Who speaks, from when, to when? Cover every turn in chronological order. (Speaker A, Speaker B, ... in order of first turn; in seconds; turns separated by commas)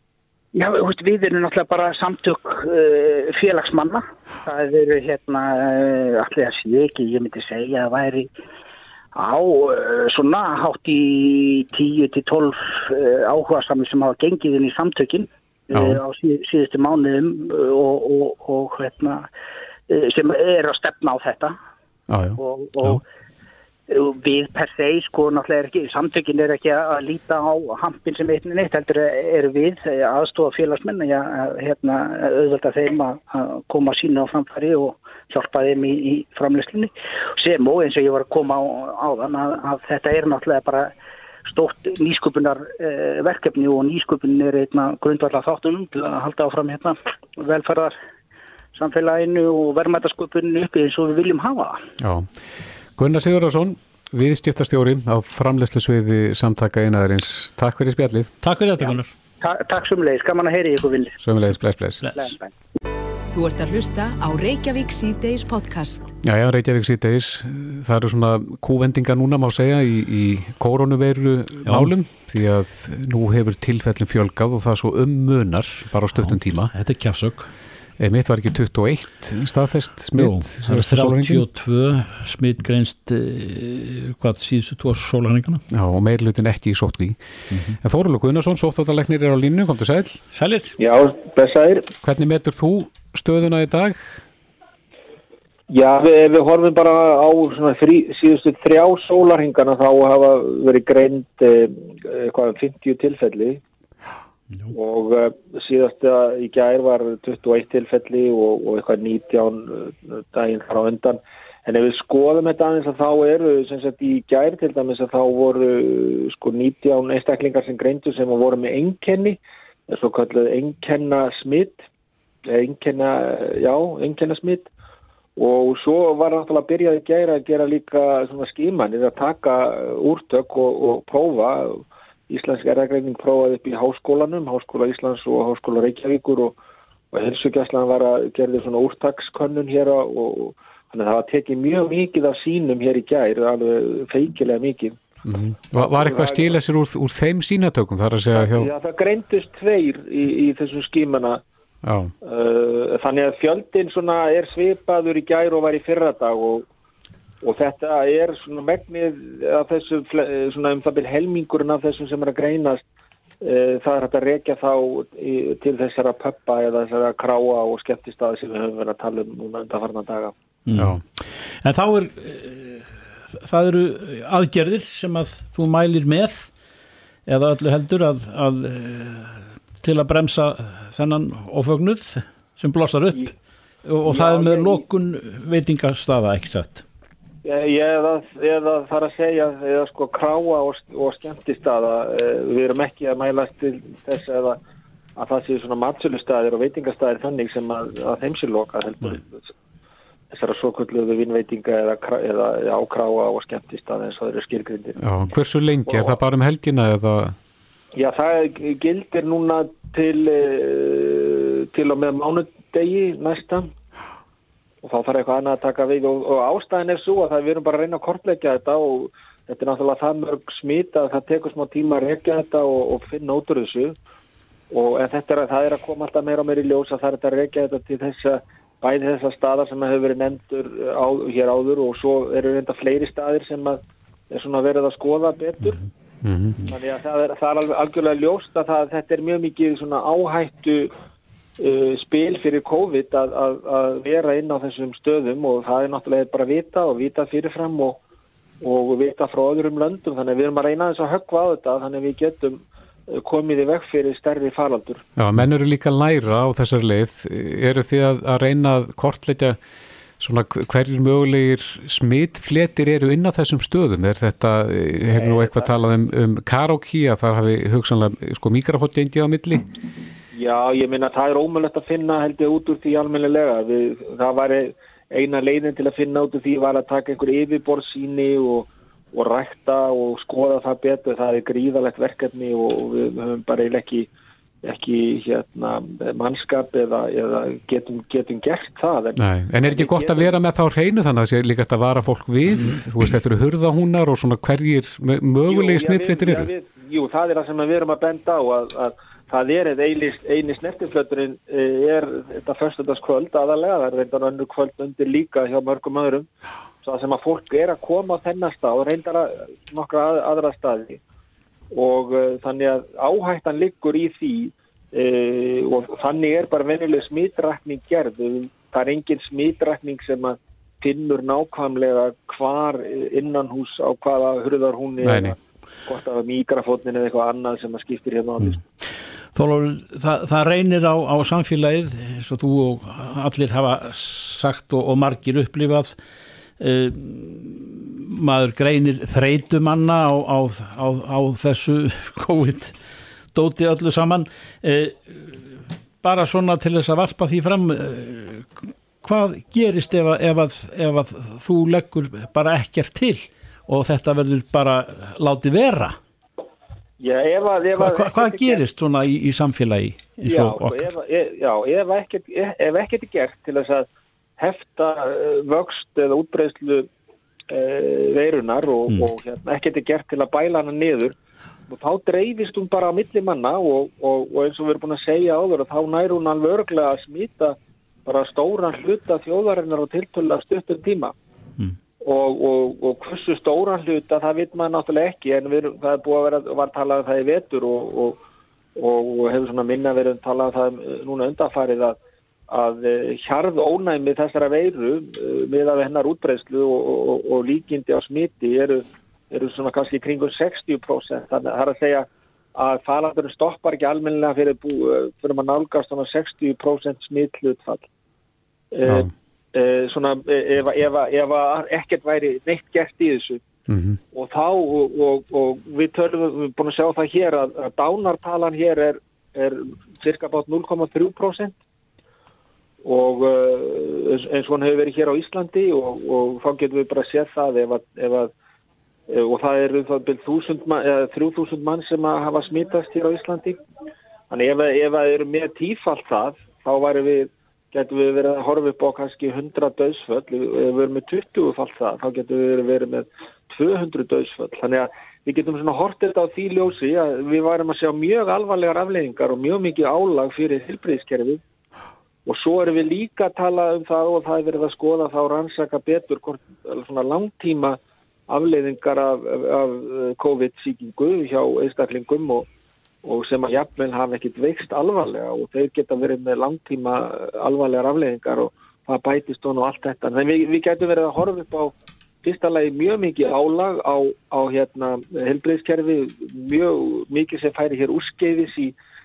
Speaker A: 0.6-8.3, Speaker A: 9.2-19.3, Speaker B: 15.7-16.0, Speaker A: 19.9-21.6, Speaker B: 22.1-23.0, Speaker A: 22.4-23.0, Speaker A: 23.9-40.9, Speaker A: 41.5-48.0, Speaker A: 48.8-51.8, Speaker B: 52.0-52.3, Speaker B: 53.0-58.3, Speaker C: 58.4-59.1, Speaker A: 58.8-61.2, Speaker B: 61.2-62.1, Speaker A: 62.1-62.5, Speaker D: 63.3-66.1, Speaker B: 66.2-76.7, Speaker C: 71.7-71.9, Speaker C: 76.2-77.5, Speaker B: 78.0-81.5, Speaker C: 80.2-85.6, Speaker B: 85.7-87.2, Speaker C: 87.5-87.8, Speaker B: 87.8-90.2, Speaker C: 90.3-90.7, Speaker E: 90.8-91.9, Speaker B: 92.0-94.2, Speaker E: 95.7-103.6, Speaker E: 104.7-121.8, Speaker E: 122.5-124.7, Speaker E: 125.4-136.6, Speaker E: 137.1-145.0, Speaker B: 145.2-148.7, Speaker E: 145.8-146.5, Speaker E: 148.4-151.4, Speaker B: 151.8-152.1, Speaker E: 152.2-156.7, Speaker E: 157.4-162.8, Speaker E: 163.4-170.3, Speaker C: 170.7-176.5, Speaker B: 170.8-171.0, Speaker C: 177.3-183.3, Speaker C: 183.8-186.8, Speaker E: 184.1-184.8, Speaker E: 187.4-194.6, Speaker E: 195.2-199.5, Speaker E: 200.3-205.0, Speaker B: 205.0-207.4, Speaker E: 205.9-206.2, Speaker E: 207.9-213.7, Speaker E: 214.8-224.0, Speaker E: 224.7-235.8, Speaker B: 236.2-236.6, Speaker E: 236.7-240.9, Speaker E: 241.6-248.0, Speaker E: 248.6-255.0, Speaker B: 255.2-259.6, Speaker B: 260.2-269.7, Speaker E: 265.1-265.7, Speaker E: 270.3-284.1, Speaker E: 284.6-290.4, Speaker B: 289.2-296.5, Speaker E: 295.5-306.3, Speaker E: 306.8-311.0, Speaker E: 311.7-328.6, Speaker B: 325.0-325.4, Speaker C: 328.4-336.0, Speaker C: 336.6-342.8, Speaker C: 343.3-356.0, Speaker E: 357.0-358.6, Speaker C: 357.8-360.9, Speaker E: 360.2-366.9, Speaker E: 367.5-371.1, Speaker E: 371.7-381.1, Speaker E: 382.0-388.2, Speaker E: 388.8-392.0, Speaker E: 392.5-407.9, Speaker E: 408.7-413.4, Speaker B: 408.9-409.1, Speaker B: 413.7-414.0, Speaker E: 414.1-421.6, Speaker E: 422.8-428.3, Speaker E: 429.1-433.6, Speaker E: 434.3-451.4, Speaker E: 452.3-462.5, Speaker E: 463.1-478.8